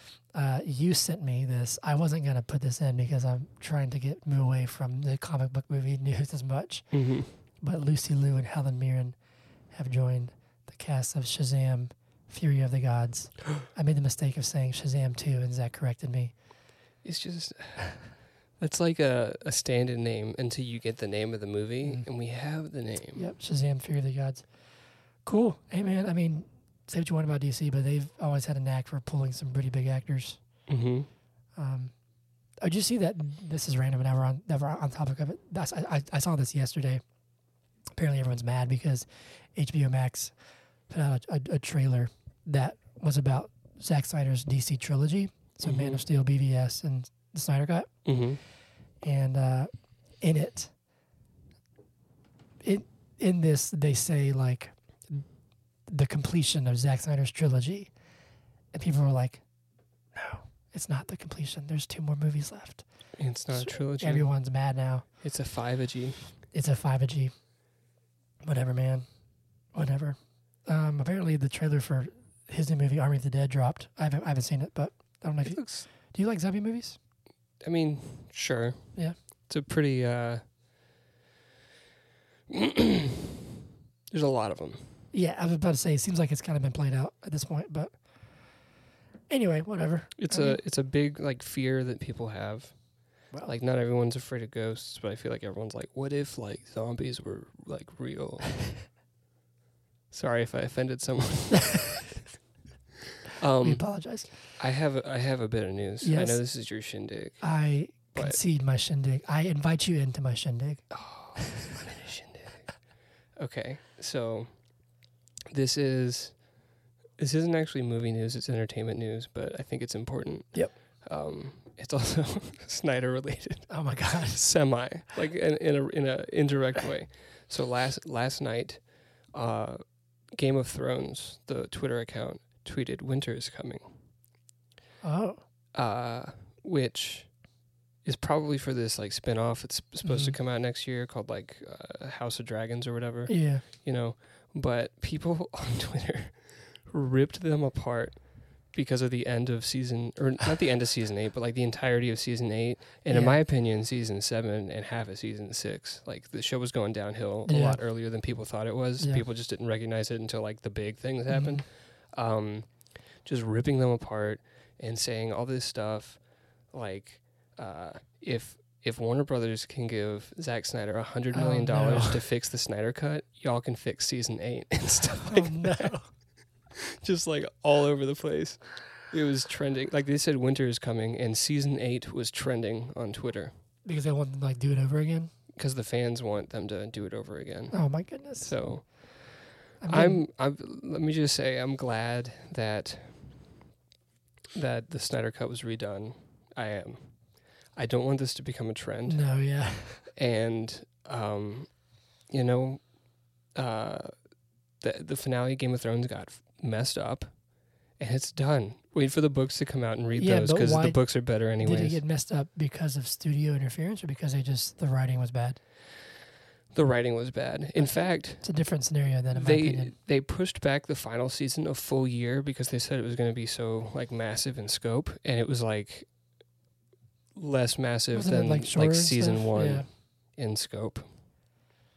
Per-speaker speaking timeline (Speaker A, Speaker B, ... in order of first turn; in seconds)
Speaker A: 0.3-6.9, 7.6-9.2, 9.7-16.3, 23.2-24.4, 25.2-30.4, 31.6-31.9, 32.6-37.0, 38.0-40.3, 40.9-47.9, 49.0-49.7, 50.2-50.7, 52.6-55.3, 55.9-57.9, 58.7-59.4, 60.2-62.9, 63.5-65.1, 66.5-67.3, 68.4-69.1, 69.7-77.0, 85.1-87.9, 89.3-90.6, 103.6-104.3, 106.0-106.4, 107.4-110.8, 111.4-111.7, 123.7-124.5, 135.0-135.4, 140.0-140.3, 143.3-143.6, 153.1-153.4, 157.5-157.8, 161.3-161.6, 171.3-172.2, 175.2-176.1, 183.8-185.3, 187.7-188.5, 189.8-190.2, 199.1-200.1, 210.2-211.0, 211.6-215.6, 217.8-219.9, 228.1-229.9
Speaker B: 6.9-7.3, 17.0-17.9, 18.6-23.3, 30.7-31.1, 45.6-46.0, 48.0-48.4, 63.2-64.3, 65.2-66.2, 75.4-75.9, 77.6-78.8, 79.5-80.4, 82.5-83.5, 84.1-84.9, 90.2-92.8, 93.4-98.7, 100.1-102.2, 103.4-103.8, 104.6-107.4, 110.9-112.7, 113.4-114.5, 115.5-116.4, 117.2-123.7, 124.3-128.8, 129.3-129.8, 130.3-133.9, 135.7-137.3, 138.1-148.2, 148.7-162.7, 163.2-166.2, 166.7-175.9, 176.7-183.5, 185.6-187.8, 188.4-189.1, 189.8-193.3, 194.6-197.1, 197.8-199.2, 200.2-201.7, 202.3-202.8, 203.6-204.1, 204.8-207.3, 208.0-212.0, 216.7-218.4, 219.3-226.1, 227.3-231.1